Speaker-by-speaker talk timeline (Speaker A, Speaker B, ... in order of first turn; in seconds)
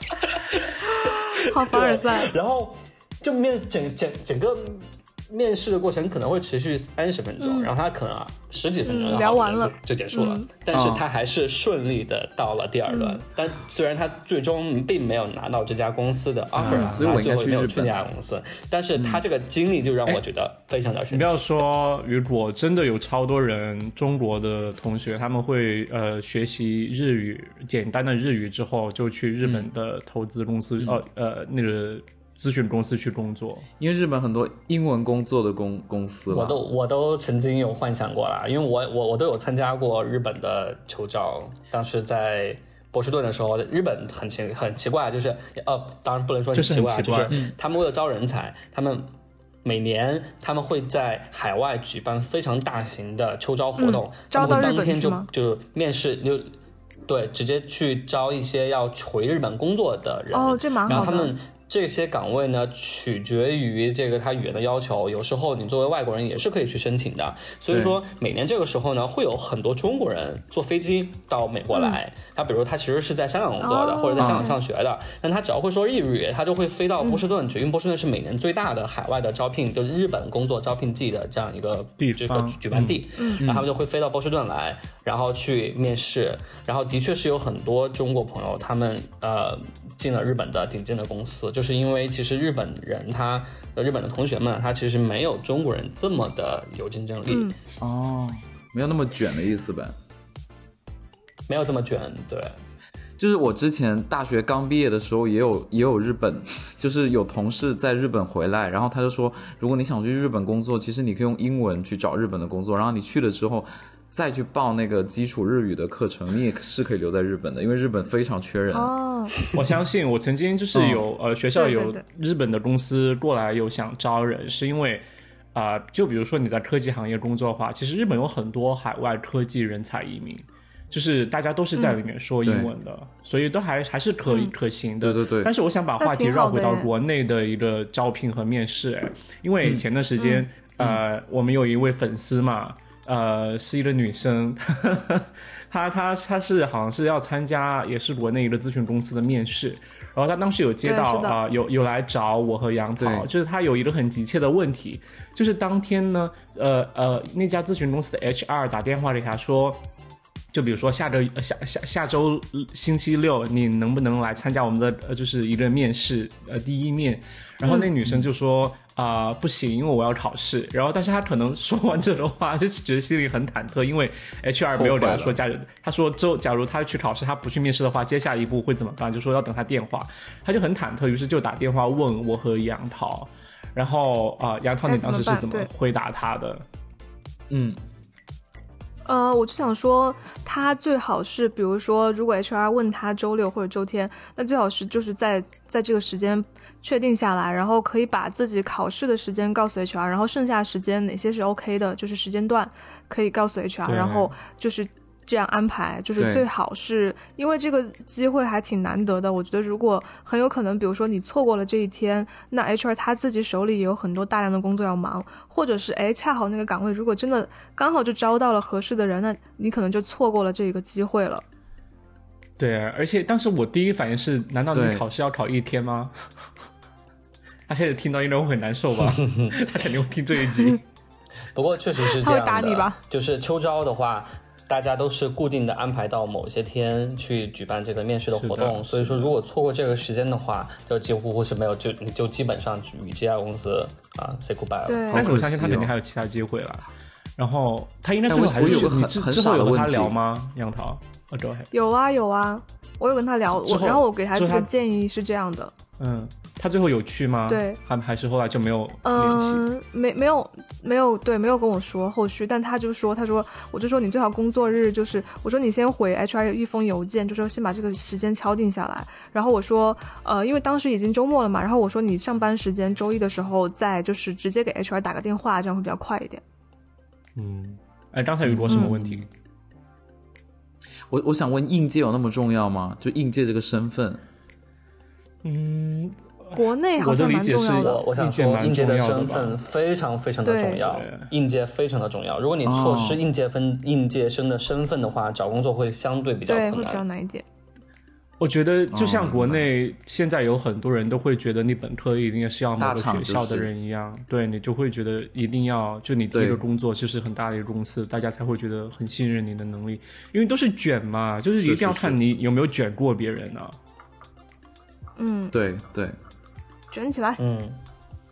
Speaker A: 0.3-21.4, 36.3-49.1, 49.6-56.5, 57.1-97.5, 101.5-102.6, 229.1-229.6, 231.6-245.1, 287.8-297.0, 317.4-317.8
Speaker B: 0.9-2.3, 7.4-7.7, 8.9-10.5, 12.9-13.2, 53.8-55.3, 60.3-61.3, 71.7-72.0, 73.6-74.6, 83.2-83.4, 97.3-97.6, 118.7-119.4, 121.6-122.0, 134.3-134.5, 136.0-136.9, 140.2-140.4, 150.8-151.4, 167.7-167.9, 184.9-185.7, 189.1-221.4, 232.1-233.0, 244.9-245.3, 251.7-255.7, 257.5-257.8, 259.0-276.4, 286.5-288.1, 290.4-290.9, 296.5-297.4, 315.2-315.5, 316.9-317.4
Speaker C: 10.7-11.1, 16.6-18.1, 19.0-19.2, 29.4-29.7, 33.8-36.6, 67.7-68.0, 74.2-74.5, 83.4-83.7, 97.8-99.9, 103.2-118.9, 120.7-121.1, 132.4-132.7, 135.0-135.5, 153.0-153.3, 174.7-175.4, 187.5-187.8, 206.2-206.5, 224.7-225.1, 245.1-245.9, 248.3-250.2, 278.4-279.2, 281.1-284.2, 292.6-293.2, 298.9-299.7, 302.8-303.7, 306.3-306.6, 311.6-312.2, 315.5-316.2
Speaker D: 16.6-17.0, 21.1-33.7, 46.5-47.4, 82.0-83.1, 119.5-159.8, 160.5-186.6, 203.8-204.3, 222.6-226.1, 227.7-230.8, 238.3-239.3, 245.1-246.9, 247.4-251.7, 253.5-254.7, 256.0-259.7, 277.4-279.3, 285.4-289.6, 290.8-291.3, 298.4-313.8